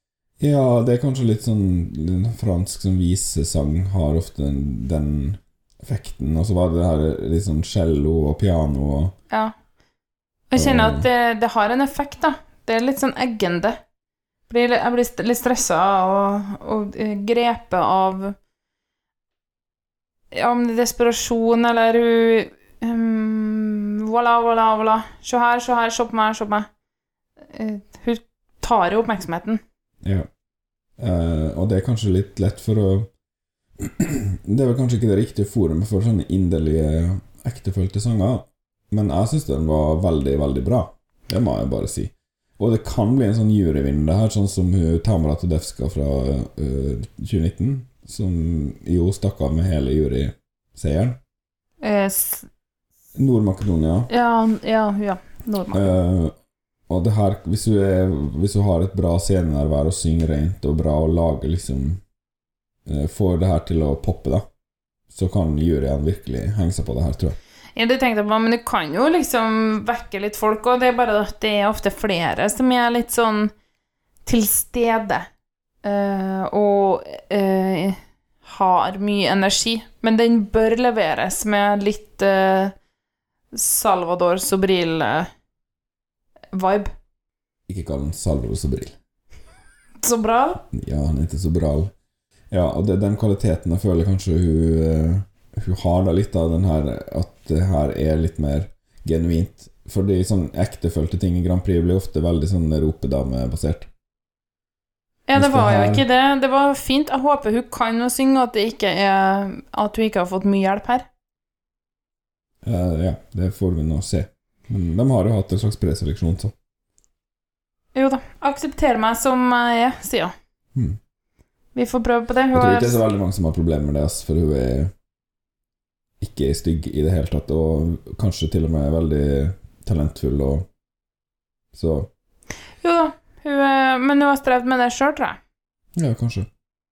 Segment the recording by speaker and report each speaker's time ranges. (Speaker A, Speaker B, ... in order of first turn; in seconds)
Speaker A: 0.4-9.1, 10.6-11.1, 30.0-30.3, 31.0-33.1, 33.8-51.2, 53.2-54.1, 55.7-56.4, 56.9-62.0, 62.9-64.5, 65.1-67.4, 87.7-89.0, 90.7-91.9, 92.5-103.9, 105.3-106.0, 112.6-116.5, 122.5-124.9, 126.2-130.7, 131.7-132.1, 136.0-136.5
Speaker B: 10.5-13.8, 14.5-18.4, 20.3-26.7, 27.5-29.6, 51.8-52.5, 54.1-56.0, 67.8-73.5, 74.2-75.2, 75.8-82.7, 83.5-85.3, 86.5-86.9, 90.0-90.6, 105.3-111.1, 117.9-120.3, 121.8-123.0, 132.8-135.4